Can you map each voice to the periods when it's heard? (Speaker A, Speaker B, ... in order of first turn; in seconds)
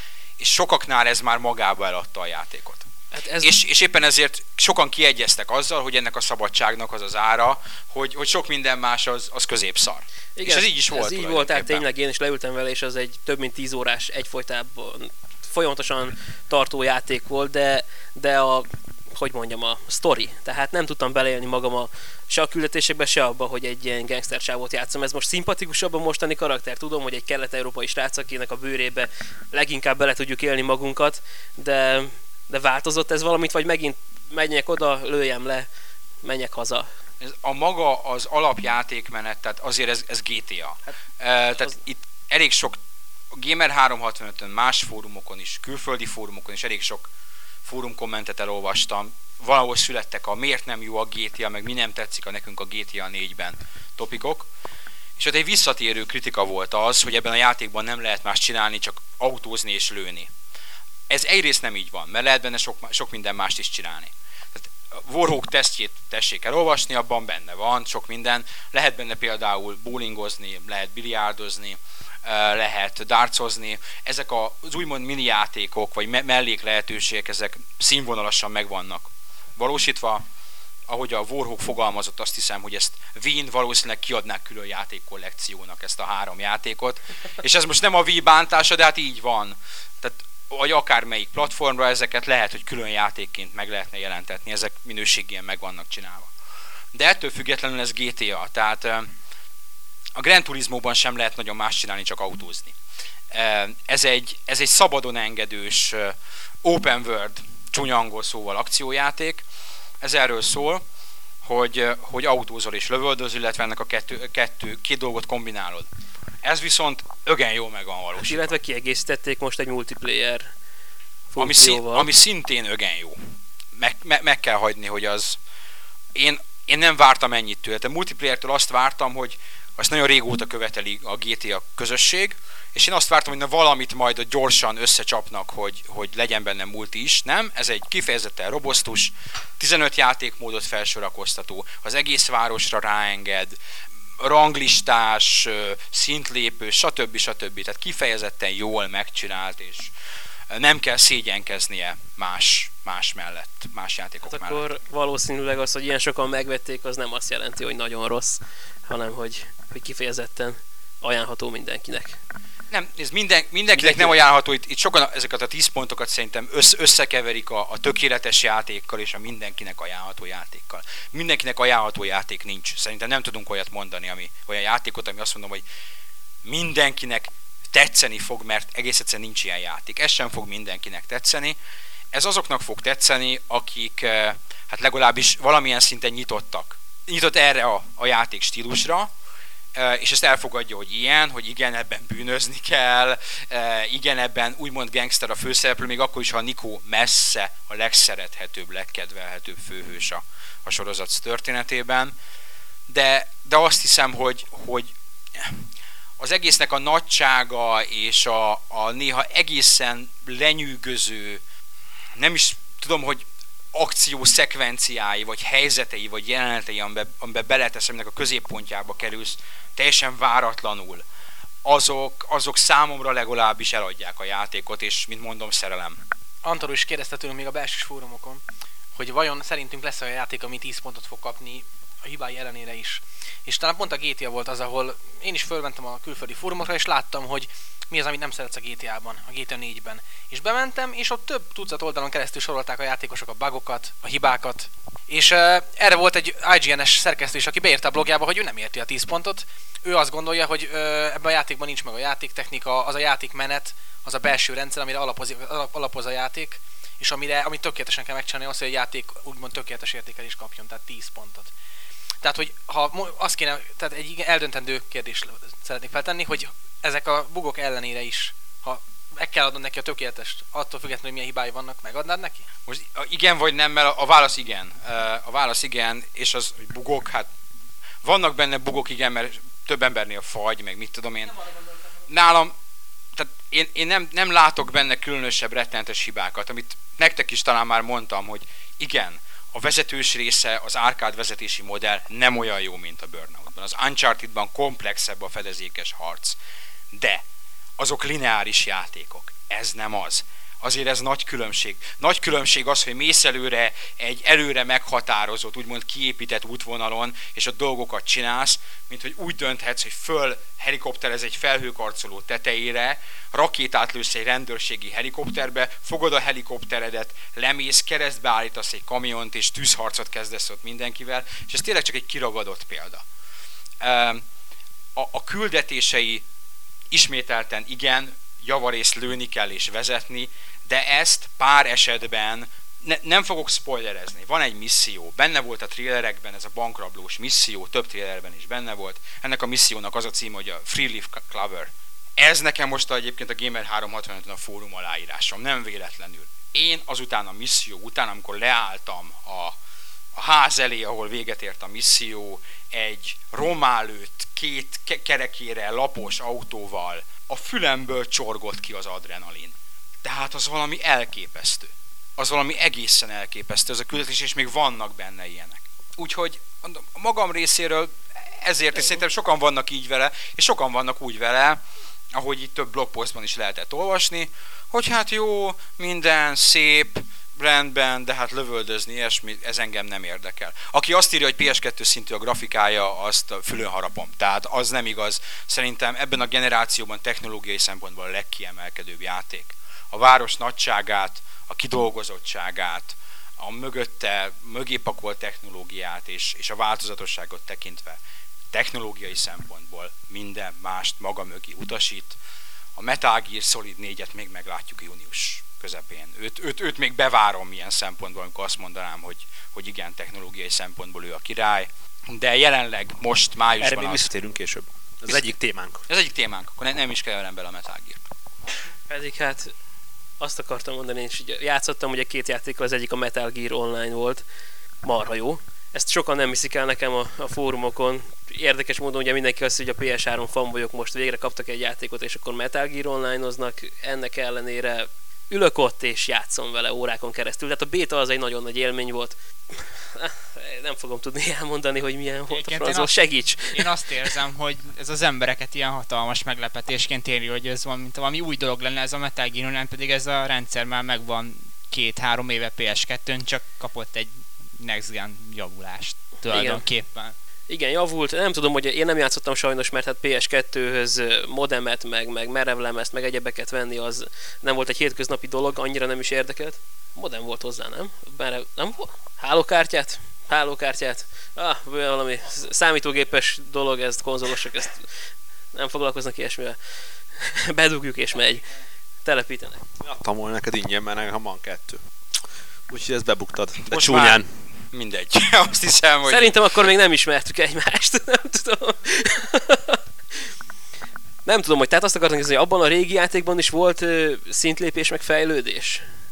Speaker A: 0.4-2.9, 3.4-11.8, 37.2-42.8, 43.3-47.1, 47.6-54.5, 55.2-60.3, 61.1-80.2, 80.9-96.3, 96.9-99.1, 100.2-102.7, 103.3-109.4, 110.0-110.8, 111.4-115.9, 116.4-118.5, 121.4-123.2, 123.7-125.4, 126.1-143.6, 144.2-149.9, 150.5-154.7, 162.7-175.6, 176.4-181.6, 182.1-189.1, 189.7-202.1, 202.9-205.7, 206.2-211.4, 212.2-221.0, 221.6-226.0, 272.7-277.3, 278.0-281.4, 282.1-282.5, 283.1-296.4, 296.9-297.2, 297.8-323.0, 323.8-324.2, 324.9-326.2, 326.9-349.6, 350.1-371.6, 372.1-398.0, 398.5-402.2, 402.8-414.1, 415.9-418.0, 483.7-486.3
Speaker B: 3.1-3.5, 10.4-35.7, 36.2-36.9, 118.2-120.5, 121.3-122.1, 154.3-162.2, 163.7-164.2, 418.9-419.5, 420.2-424.2, 424.8-444.1, 456.2-456.6, 457.5-474.9, 475.5-476.6, 477.1-478.4, 479.0-479.6, 486.1-489.8, 491.2-495.8
Speaker C: 226.4-228.4, 228.9-261.5, 262.2-272.4
Speaker D: 413.6-415.8, 479.8-481.8, 482.7-484.3
Speaker E: 442.3-457.1